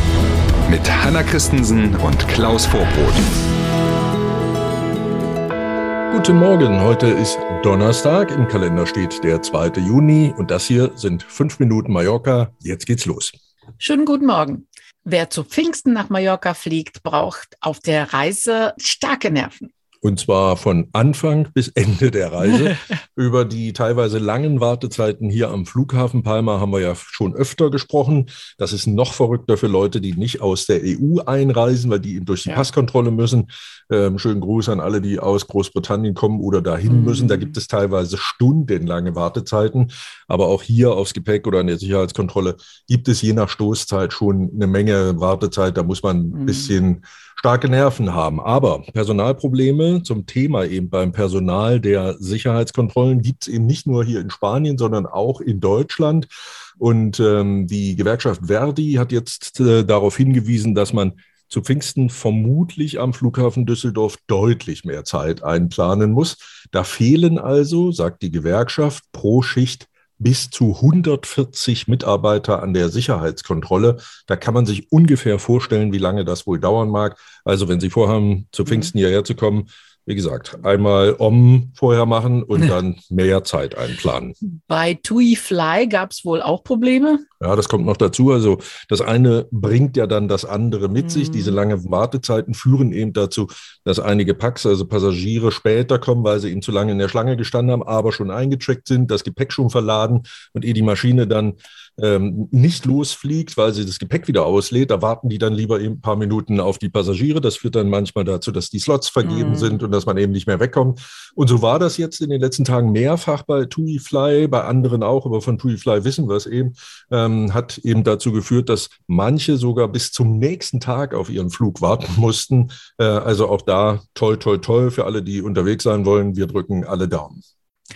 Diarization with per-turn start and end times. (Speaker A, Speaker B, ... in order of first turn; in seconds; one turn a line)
Speaker A: 0.7-3.3
Speaker B: 6.1-13.3
Speaker C: 13.8-19.7
Speaker B: 20.0-84.3
Speaker C: 36.9-37.5
Speaker C: 46.4-46.7
Speaker C: 84.7-87.2
Speaker B: 87.4-127.4
Speaker C: 91.2-91.6
Speaker C: 109.2-109.8